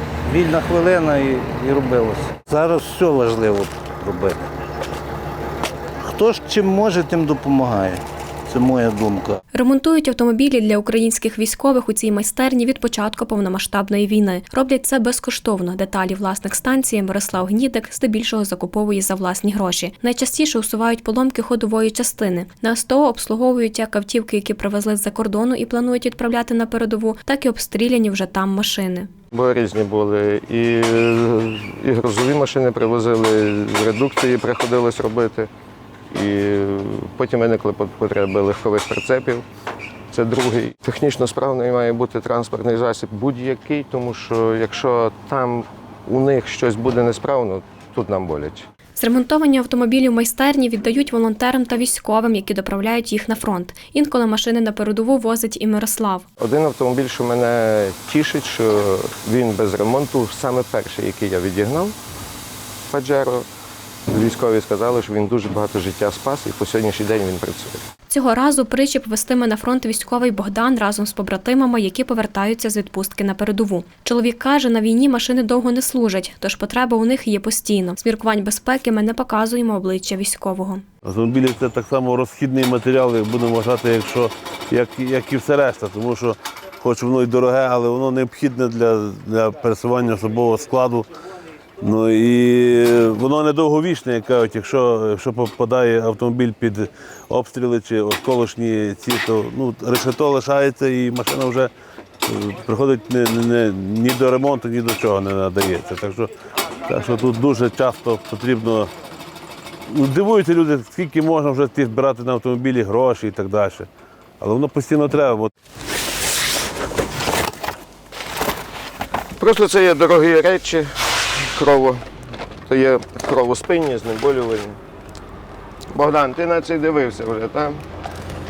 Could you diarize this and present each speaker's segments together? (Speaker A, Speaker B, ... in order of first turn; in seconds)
Speaker A: 0.2-4.5, 6.0-9.4
Speaker B: 9.5-29.1, 49.0-56.3, 68.1-80.8
Speaker C: 29.3-35.5, 36.1-39.5, 40.1-48.6, 56.4-62.0, 62.9-63.5, 64.1-67.8, 119.4-122.0, 122.7-124.8, 125.9-127.8
Speaker D: 81.0-91.1, 91.8-101.7, 102.2-106.3, 106.8-108.9, 109.9-113.9, 114.4-115.5